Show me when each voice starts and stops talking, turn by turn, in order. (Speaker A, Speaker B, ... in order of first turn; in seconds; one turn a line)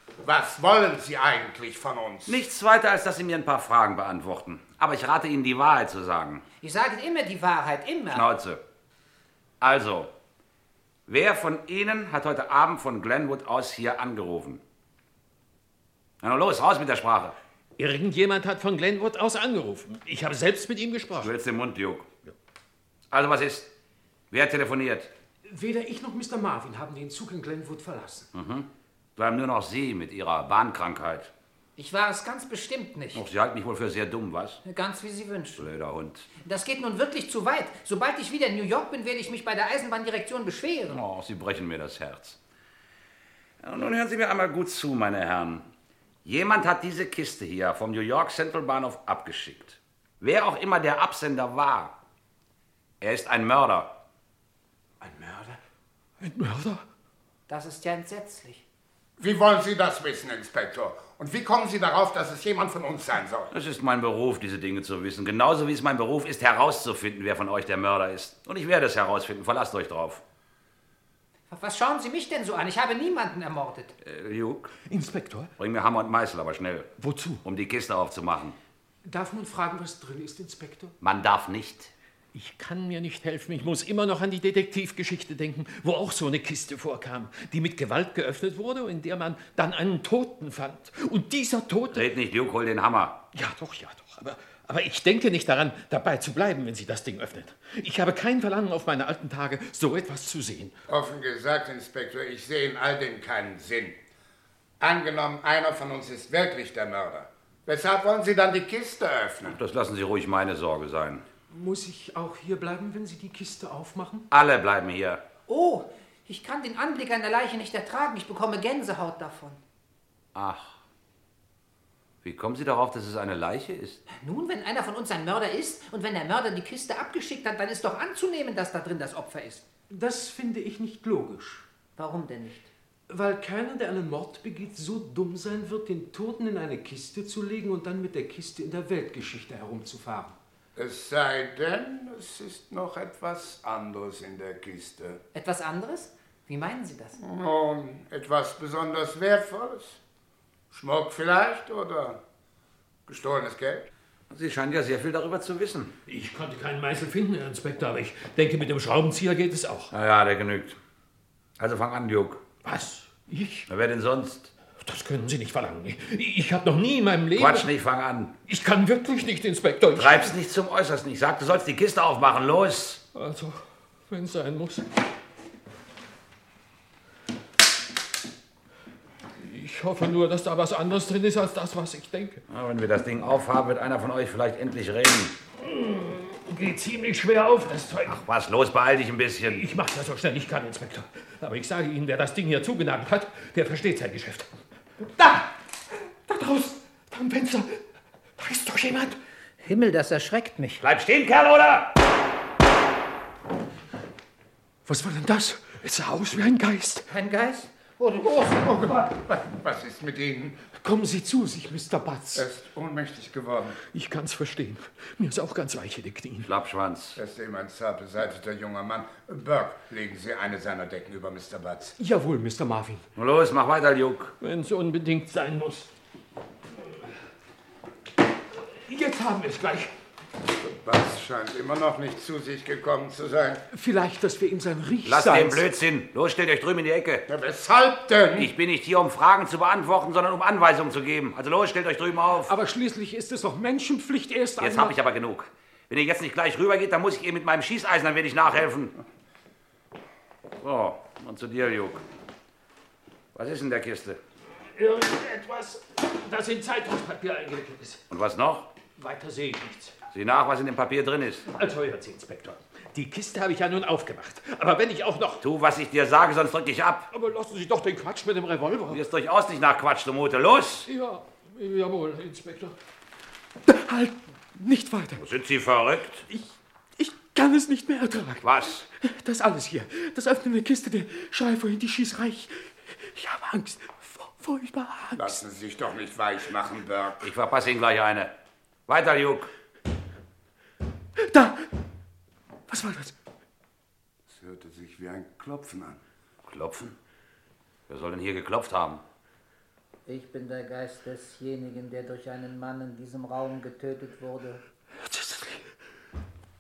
Speaker A: 0.2-2.4
Speaker B: 2.3-6.4
Speaker C: 6.6-8.3
Speaker B: 8.1-8.6
Speaker B: 9.6-10.1
Speaker B: 11.1-14.6
Speaker B: 16.2-17.4
Speaker D: 17.8-21.3
Speaker B: 21.2-22.1
Speaker B: 23.1-23.7
Speaker B: 24.3-25.1
Speaker E: 25.4-28.3
Speaker B: 28.3-31.3
Speaker C: 31.8-33.2
Speaker B: 33.1-34.6
Speaker C: 34.6-35.7
Speaker B: 35.6-36.3
Speaker C: 36.4-41.0
Speaker B: 40.9-42.4
Speaker B: 43.6-45.7
Speaker B: 46.2-52.0
Speaker B: 53.0-53.9
Speaker E: 55.0-55.6
Speaker D: 56.2-56.8
Speaker C: 57.5-58.6
Speaker A: 59.2-63.5
Speaker B: 63.5-70.2
Speaker C: 71.5-73.9
Speaker B: 74.0-74.7
Speaker D: 74.9-75.5
Speaker B: 75.6-76.9
Speaker D: 77.0-77.4
Speaker B: 77.4-78.6
Speaker E: 79.0-81.0
Speaker B: 81.0-81.9
Speaker D: 82.3-92.0
Speaker B: 91.9-93.2
Speaker D: 93.3-100.8
Speaker A: 100.9-104.0
Speaker A: 104.8-109.6
Speaker B: 109.5-111.2
Speaker E: 111.5-114.3
Speaker B: 114.3-115.2
Speaker C: 115.5-119.6
Speaker B: 120.3-120.8
Speaker B: 122.2-124.0
Speaker C: 124.2-129.7
Speaker E: 129.9-131.7
Speaker C: 132.0-132.7
Speaker E: 133.1-140.4
Speaker A: 140.8-145.2
Speaker C: 145.3-147.2
Speaker A: 147.2-150.0
Speaker A: 150.7-152.2
Speaker A: 153.1-153.9
Speaker B: 154.3-155.9
Speaker D: 156.1-159.9
Speaker B: 159.9-160.8
Speaker B: 161.6-162.4
Speaker D: 162.6-163.7
Speaker B: 163.7-164.5
Speaker D: 164.8-167.7
Speaker B: 167.4-168.3
Speaker D: 168.5-170.3
Speaker B: 170.0-173.0
Speaker D: 173.2-174.8
Speaker D: 179.4-182.4
Speaker B: 182.5-185.4
Speaker D: 185.6-188.2
Speaker B: 188.1-189.6
Speaker D: 189.5-194.5
Speaker D: 195.1-195.5
Speaker D: 196.3-197.8
Speaker D: 198.4-199.2
Speaker C: 199.6-200.8
Speaker B: 200.8-201.9
Speaker E: 204.9-205.7
Speaker D: 205.6-207.1
Speaker C: 207.1-208.9
Speaker A: 209.0-210.6
Speaker E: 210.8-212.5
Speaker A: 212.3-213.8
Speaker D: 213.9-216.5
Speaker B: 216.4-217.2
Speaker A: 217.2-221.9
Speaker E: 222.0-223.0
Speaker B: 223.2-224.3
Speaker D: 224.4-225.9
Speaker D: 228.8-229.9
Speaker A: 230.6-233.6
Speaker E: 233.7-235.7
Speaker B: 235.1-237.3
Speaker A: 237.3-238.5
Speaker B: 238.4-242.5
Speaker E: 242.5-245.0
Speaker B: 244.6-249.0
Speaker B: 250.6-252.0
Speaker B: 253.3-254.2
Speaker D: 254.8-258.0
Speaker B: 258.1-258.7
Speaker D: 259.0-259.9
Speaker B: 260.1-261.5
Speaker D: 261.5-265.4
Speaker B: 265.4-267.1
Speaker D: 267.1-269.0
Speaker B: 268.9-270.9
Speaker D: 270.9-272.8
Speaker E: 273.7-275.2
Speaker B: 275.2-276.2
Speaker E: 276.3-285.4
Speaker B: 278.4-278.8
Speaker A: 285.1-287.2
Speaker B: 287.2-288.3
Speaker B: 288.9-289.5
Speaker E: 291.2-291.7
Speaker E: 292.7-293.1
Speaker A: 294.3-296.0
Speaker B: 296.5-297.0
Speaker B: 297.9-299.0
Speaker C: 300.1-304.6
Speaker D: 305.0-305.6